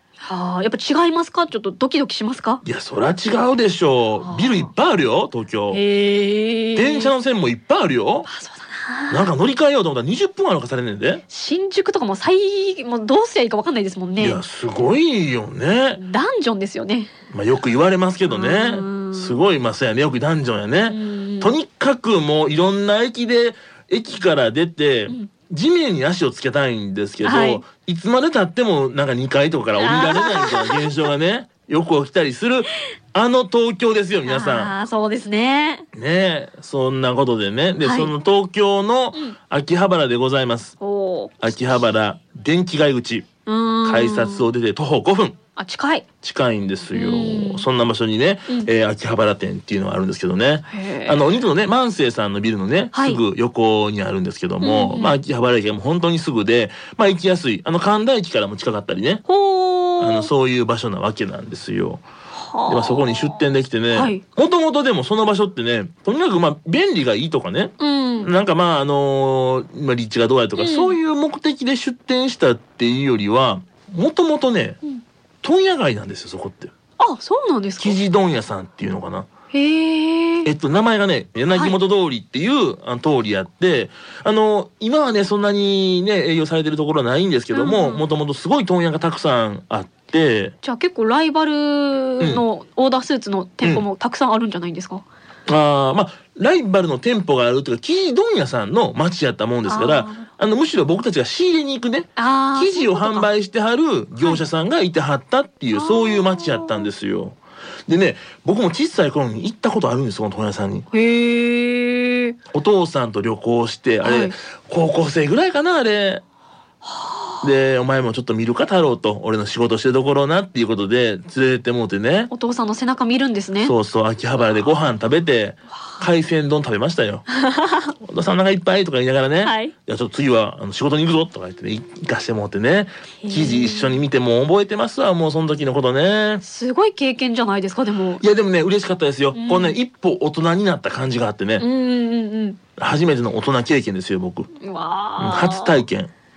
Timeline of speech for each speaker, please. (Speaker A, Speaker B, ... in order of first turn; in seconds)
Speaker A: 0.2-2.6, 4.2-4.7, 5.7-7.1, 8.3-9.3, 11.3-14.4, 16.0-17.1, 18.3-19.4, 20.9-21.5, 27.2-27.6, 29.8-31.1, 34.2-35.9, 37.8-38.1, 40.8-41.4, 43.5-44.5, 45.6-46.1, 46.9-47.7, 50.7-51.3, 52.9-53.2, 54.6-55.1, 59.3-60.3, 62.4-63.4, 63.9-64.2, 67.8-68.3, 70.6-71.0, 77.0-78.0, 79.5-80.5, 87.5-88.0, 90.6-95.0, 99.7-100.3, 102.2-103.3, 105.7-106.9, 110.9-112.4, 114.0-114.3, 116.9-117.4, 122.3-123.7, 127.3-128.0, 129.4-129.7, 133.2-134.0, 136.4-138.2, 139.3-139.8, 141.6-142.6, 144.6-145.8
Speaker B: 2.6-5.8, 6.8-8.3, 9.1-11.2, 14.2-16.0, 17.3-34.7, 35.9-40.8, 41.4-43.3, 43.8-45.4, 46.2-59.2, 60.0-62.0, 62.7-74.8, 75.4-76.7, 77.8-79.3, 80.4-90.5, 95.5-110.9, 112.5-116.2, 117.4-122.3, 123.6-127.3, 128.0-136.4, 138.2-141.7, 142.8-144.5, 145.2-146.1